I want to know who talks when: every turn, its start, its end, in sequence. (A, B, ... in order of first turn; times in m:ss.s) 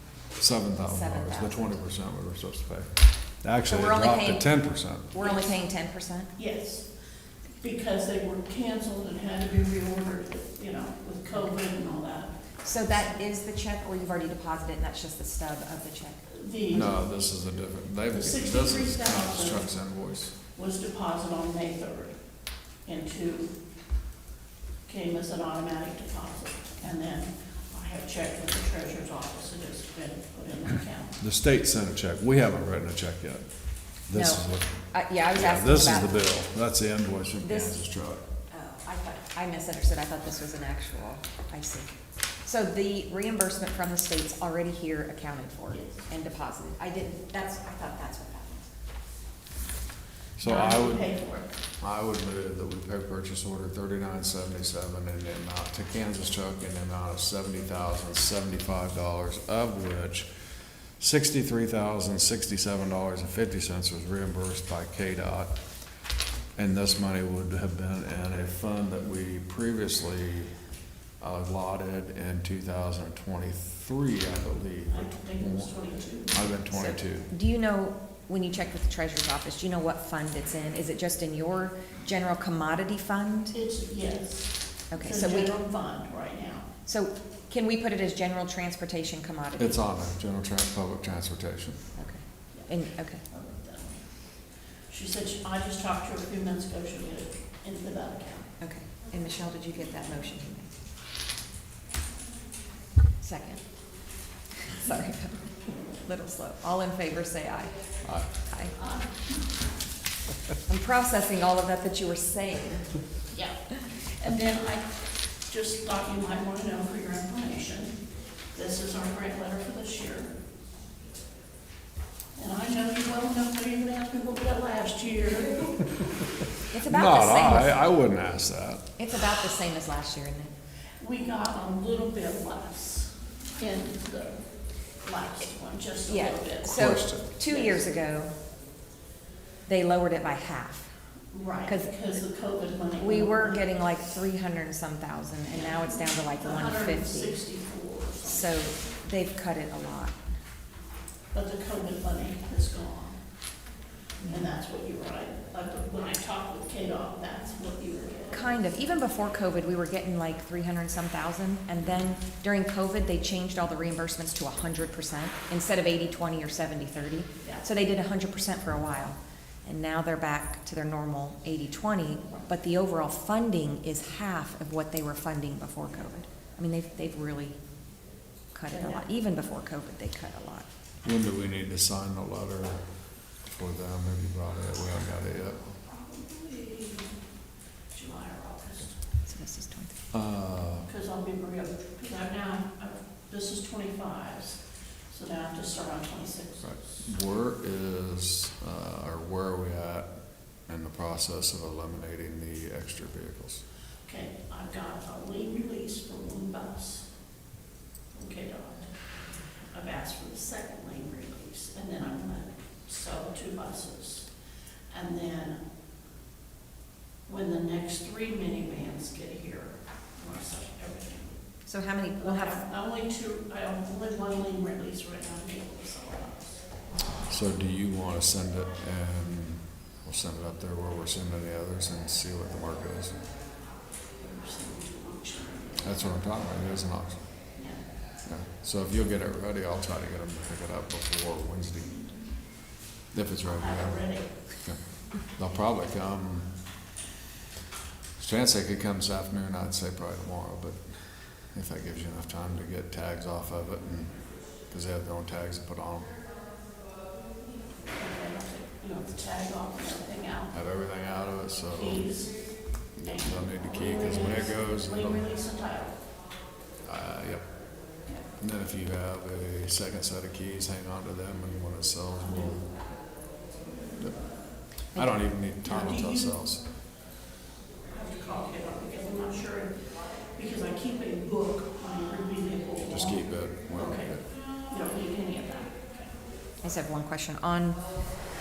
0:00.4-0:05.2 A
0:00.8-0:01.8 B
0:03.7-0:04.5 B
0:05.1-0:06.3 B
0:05.2-0:05.6 C
0:06.4-0:06.9 C
0:07.6-0:12.4 C
0:12.6-0:16.2 B
0:16.3-0:17.0 C
0:16.7-0:20.3 A
0:18.1-0:19.7 C
0:20.6-0:22.2 C
0:22.9-0:23.5 C
0:24.9-0:31.2 C
0:31.2-0:33.4 A
0:34.1-0:38.2 A
0:34.1-0:36.2 B
0:37.4-0:37.8 B
0:38.5-0:41.9 B
0:42.4-0:48.7 B
0:45.7-0:46.0 C
0:50.4-0:51.1 A
0:50.4-0:51.5 C
0:51.8-1:00.3 A
1:01.0-1:05.6 A
1:06.6-1:10.5 A
1:11.2-1:15.8 A
1:14.9-1:16.5 C
1:16.3-1:17.3 A
1:16.7-1:23.6 B
1:23.5-1:26.7 C
1:24.9-1:25.6 B
1:26.9-1:29.8 B
1:29.6-1:31.9 A
1:32.0-1:33.2 B
1:33.3-1:34.0 C
1:34.9-1:38.5 C
1:38.6-1:40.7 B
1:43.2-1:43.6 B
1:44.6-1:45.5 B
1:46.0-1:47.7 B
1:48.5-1:48.8 B
1:48.8-1:49.3 C
1:50.7-1:53.0 B
1:53.3-1:54.9 C
1:55.5-1:58.0 C
1:58.5-2:00.3 C
2:02.4-2:05.9 C
2:06.7-2:07.8 B
2:06.8-2:08.9 A
2:09.0-2:10.5 B
2:11.0-2:14.4 C
2:15.0-2:17.9 C
2:16.1-2:18.3 B
2:16.6-2:17.4 A
2:19.7-2:20.9 B
2:21.3-2:23.7 C
2:21.7-2:22.1 B
2:23.0-2:27.4 B
2:25.5-2:28.6 C
2:28.2-2:30.2 B
2:31.3-2:33.2 C
2:34.2-2:34.5 B
2:34.2-2:38.5 C
2:38.3-2:57.6 B
2:47.4-2:47.7 C
2:58.5-3:00.7 B
2:58.7-2:59.0 C
3:01.0-3:02.9 A
3:03.4-3:05.8 A
3:05.9-3:07.2 C
3:07.9-3:09.0 C
3:09.3-3:10.0 B
3:10.1-3:10.9 A
3:10.8-3:14.6 C
3:15.1-3:16.8 C
3:16.6-3:20.1 A
3:20.7-3:23.6 A
3:24.1-3:27.1 C
3:28.1-3:28.9 C
3:29.7-3:34.3 C
3:34.9-3:35.6 C
3:37.3-3:41.4 C
3:41.7-3:42.6 B
3:42.2-3:46.6 C
3:47.3-3:53.2 A
3:54.2-3:56.0 C
3:55.8-3:57.3 A
3:57.6-3:57.8 C
3:58.2-4:02.1 A
4:03.1-4:04.1 A
4:03.5-4:04.3 C
4:05.4-4:06.5 A
4:08.2-4:16.1 A
4:17.9-4:20.6 C
4:20.5-4:22.1 A
4:21.7-4:22.4 C
4:23.0-4:25.3 A
4:23.1-4:26.0 C
4:26.9-4:27.6 A
4:28.4-4:32.7 A
4:32.2-4:32.6 C
4:34.9-4:36.6 A
4:35.6-4:36.4 C
4:37.9-4:39.8 C
4:40.4-4:46.1 C
4:42.9-4:44.2 A
4:46.6-4:47.8 B